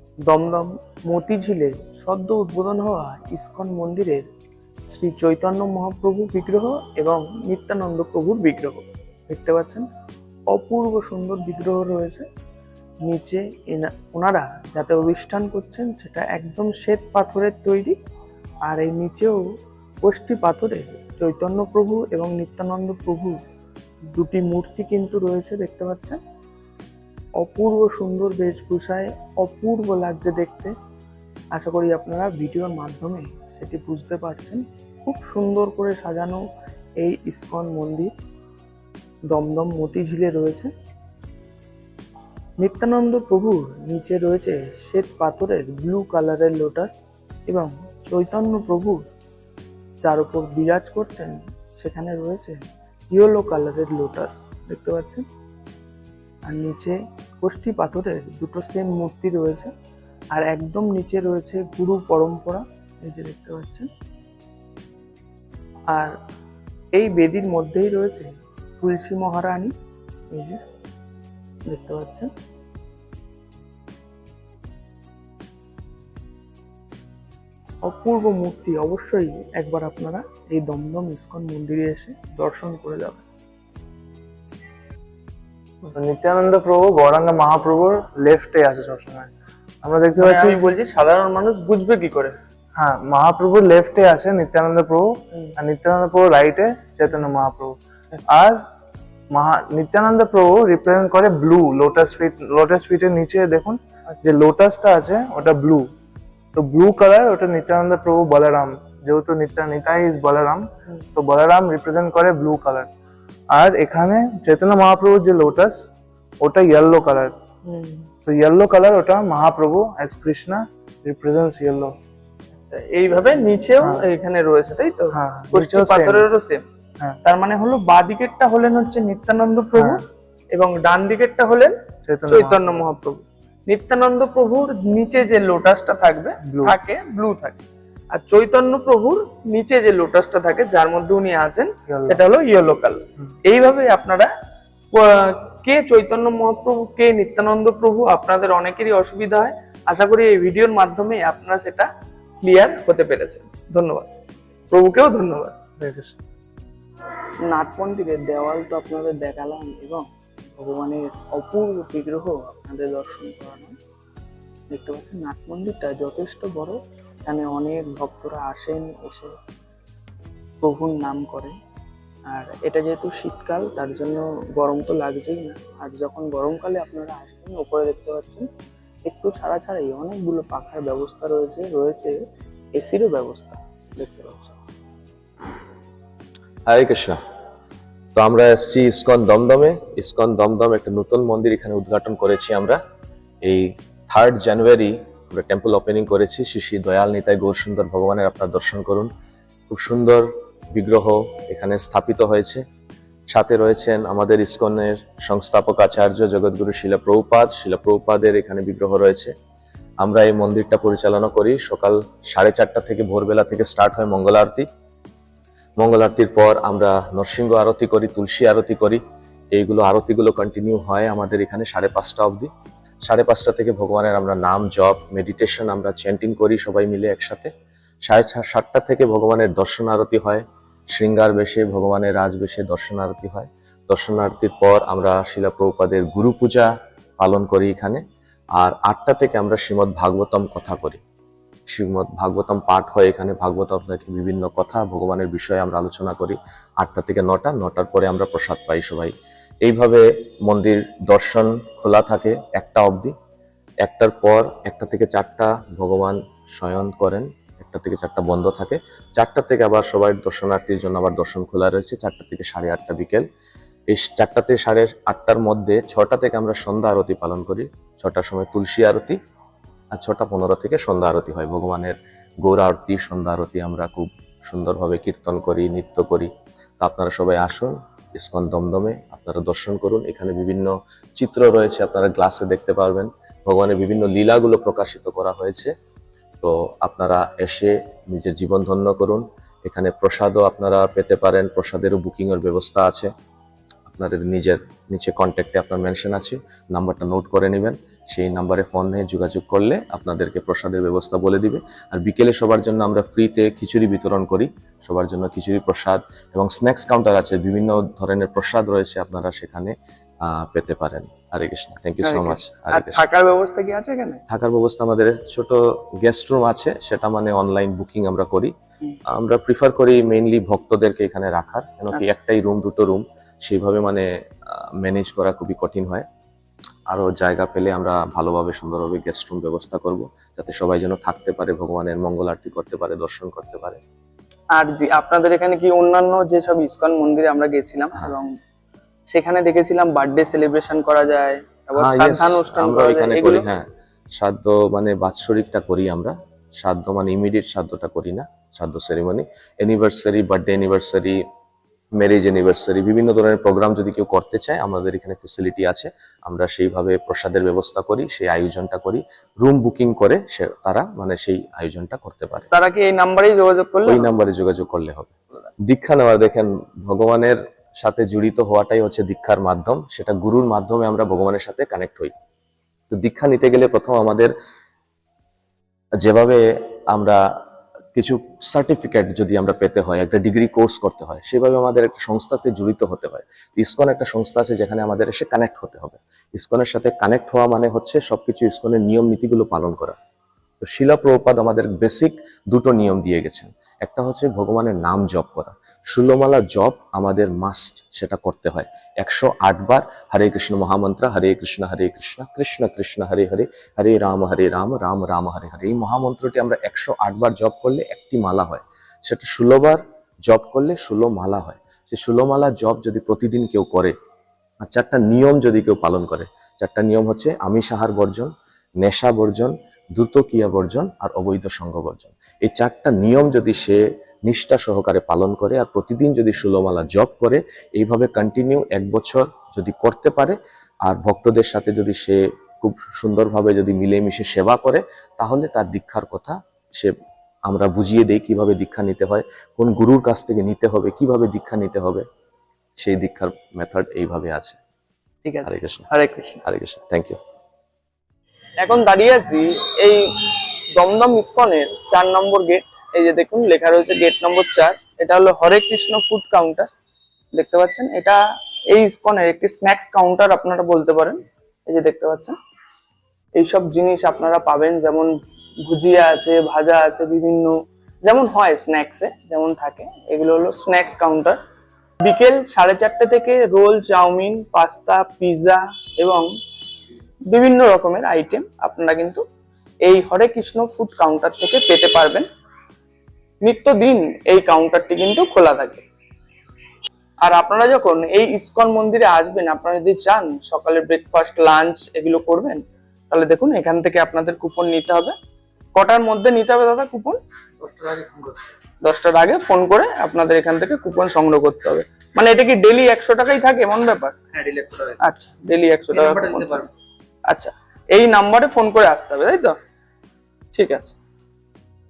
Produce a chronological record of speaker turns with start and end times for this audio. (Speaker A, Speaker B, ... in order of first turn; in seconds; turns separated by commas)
Speaker A: 0.3-4.2, Speaker A: 4.9-9.9, Speaker A: 10.5-12.3, Speaker A: 13.0-18.0, Speaker A: 18.6-19.4, Speaker A: 20.0-23.4, Speaker A: 24.1-26.2, Speaker A: 27.4-30.7, Speaker A: 31.5-36.4, Speaker A: 37.0-38.1, Speaker A: 39.3-40.7, Speaker A: 42.6-47.0, Speaker A: 47.5-49.0, Speaker A: 50.0-55.2, Speaker A: 56.5-59.7, Speaker A: 60.3-63.9, Speaker A: 67.0-69.7, Speaker A: 70.3-70.6, Speaker A: 71.7-72.3, Speaker A: 77.8-83.2, Speaker B: 85.8-89.3, Speaker B: 89.8-90.7, Speaker A: 90.2-92.3, Speaker B: 92.8-97.8, Speaker B: 98.3-98.6, Speaker B: 99.3-105.9, Speaker B: 106.5-112.9, Speaker B: 113.5-115.8, Speaker B: 116.4-117.3, Speaker A: 117.6-118.1, Speaker B: 118.2-121.9, Speaker A: 122.6-126.6, Speaker B: 125.1-126.3, Speaker A: 127.2-130.0, Speaker A: 130.5-131.8, Speaker B: 132.1-132.6, Speaker A: 132.3-144.3, Speaker B: 136.5-136.8, Speaker B: 141.9-142.2, Speaker A: 144.9-151.9, Speaker A: 152.4-154.1, Speaker A: 154.7-155.6, Speaker B: 155.8-156.2, Speaker A: 157.4-160.0, Speaker A: 160.6-163.8, Speaker A: 164.7-169.3, Speaker A: 170.6-171.6, Speaker A: 172.3-178.5, Speaker A: 179.1-182.2, Speaker A: 182.8-184.6, Speaker C: 186.7-187.2, Speaker C: 188.1-192.8, Speaker C: 193.4-199.1, Speaker C: 199.7-202.6, Speaker C: 203.3-209.3, Speaker C: 210.0-214.7, Speaker C: 215.8-219.0, Speaker C: 219.5-222.5, Speaker C: 223.0-227.5, Speaker C: 228.0-238.0, Speaker C: 238.6-241.0, Speaker C: 241.7-253.2, Speaker C: 253.8-263.3, Speaker C: 263.9-269.2, Speaker C: 269.9-285.7, Speaker C: 286.4-293.1, Speaker C: 293.9-313.0, Speaker A: 312.0-314.2, Speaker C: 314.3-318.5, Speaker C: 319.1-326.1, Speaker C: 326.9-333.8, Speaker A: 334.5-338.4, Speaker A: 339.1-343.4, Speaker C: 341.7-351.2, Speaker C: 352.0-362.5, Speaker A: 362.5-364.1, Speaker C: 363.9-372.1, Speaker C: 372.9-374.3, Speaker C: 376.0-377.2, Speaker C: 377.9-390.0, Speaker C: 390.6-413.9, Speaker C: 414.6-436.9, Speaker C: 437.4-442.1, Speaker C: 442.8-444.6, Speaker A: 445.2-446.4, Speaker C: 445.4-445.9, Speaker C: 446.4-447.2, Speaker A: 448.6-456.7, Speaker A: 457.3-462.4, Speaker A: 463.4-465.1, Speaker A: 465.6-471.4, Speaker A: 472.0-476.3, Speaker A: 477.3-479.2, Speaker A: 479.8-482.3, Speaker A: 483.4-485.8, Speaker A: 487.2-495.1, Speaker A: 495.8-497.2, Speaker A: 498.8-506.7, Speaker A: 507.3-509.6, Speaker A: 510.5-510.9